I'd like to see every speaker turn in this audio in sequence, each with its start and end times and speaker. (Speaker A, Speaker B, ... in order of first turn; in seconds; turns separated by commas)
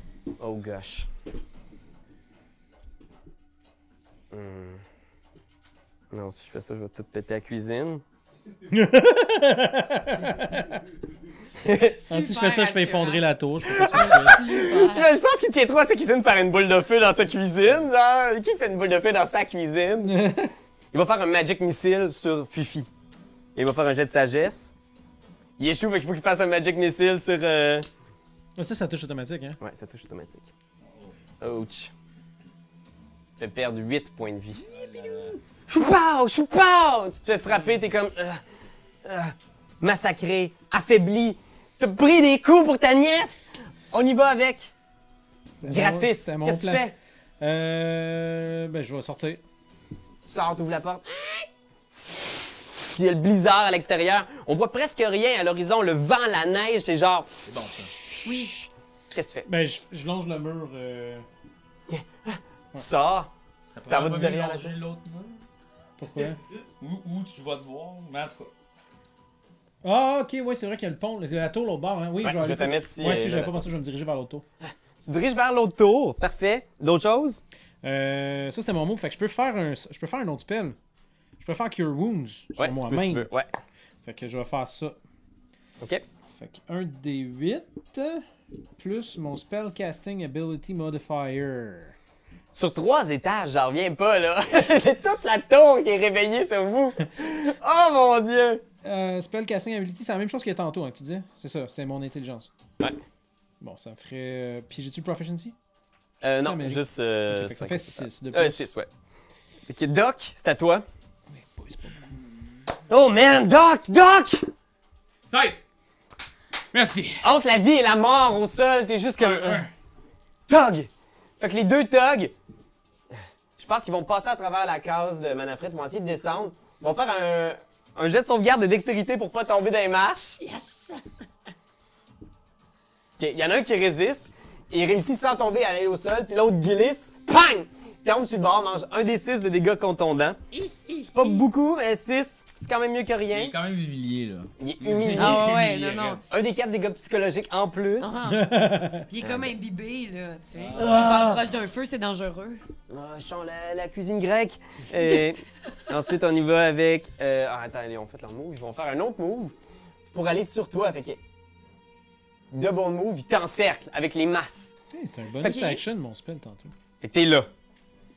Speaker A: 0.4-1.1, Speaker A: 4.3-4.8, Speaker A: 6.1-8.0, Speaker B: 8.7-10.8, Speaker A: 11.6-12.1, Speaker C: 12.1-13.3, Speaker B: 12.1-14.4, Speaker A: 13.6-20.3, Speaker C: 13.9-15.1, Speaker B: 20.1-20.5, Speaker A: 20.9-22.9, Speaker A: 23.6-24.7, Speaker A: 25.6-27.9, Speaker B: 28.6-29.6, Speaker A: 29.6-30.5, Speaker D: 30.8-31.2, Speaker A: 31.4-31.9, Speaker A: 33.4-38.4, Speaker D: 34.6-35.4, Speaker A: 39.0-44.7, Speaker B: 45.5-46.9, Speaker A: 45.6-47.0, Speaker B: 47.4-49.4, Speaker A: 50.3-59.5, Speaker D: 57.5-58.0, Speaker C: 58.2-58.6, Speaker B: 59.5-61.3, Speaker A: 61.9-64.7, Speaker D: 63.7-65.4, Speaker B: 66.0-66.4, Speaker D: 66.8-68.5, Speaker B: 69.8-74.4, Speaker A: 72.2-73.7, Speaker A: 75.0-77.4, Speaker B: 77.8-80.8, Speaker B: 81.4-83.3, Speaker A: 82.6-83.5, Speaker B: 84.0-85.0, Speaker A: 85.8-86.0, Speaker B: 86.3-88.2, Speaker B: 88.8-92.0, Speaker A: 92.5-98.6, Speaker B: 98.8-102.5, Speaker B: 103.6-105.5, Speaker A: 106.2-108.9, Speaker B: 106.4-108.7, Speaker A: 109.7-110.9, Speaker B: 111.3-112.2, Speaker A: 112.9-114.5, Speaker E: 115.3-115.7, Speaker E: 116.7-117.3, Speaker A: 117.2-119.7, Speaker E: 119.2-119.7, Speaker A: 120.5-122.3, Speaker A: 123.6-130.4, Speaker C: 130.4-131.0, Speaker A: 133.2-140.5, Speaker C: 140.5-141.4, Speaker A: 141.1-143.5, Speaker D: 143.3-146.2, Speaker A: 144.6-145.5, Speaker E: 144.8-145.3, Speaker C: 145.1-146.2, Speaker A: 146.3-148.2, Speaker C: 148.0-152.6, Speaker B: 148.2-149.1, Speaker A: 149.2-149.5, Speaker D: 150.5-151.5, Speaker A: 150.8-151.4, Speaker A: 152.9-159.5, Speaker A: 160.1-161.2, Speaker A: 162.5-164.8, Speaker B: 164.9-166.7, Speaker A: 165.4-165.8, Speaker A: 167.0-167.5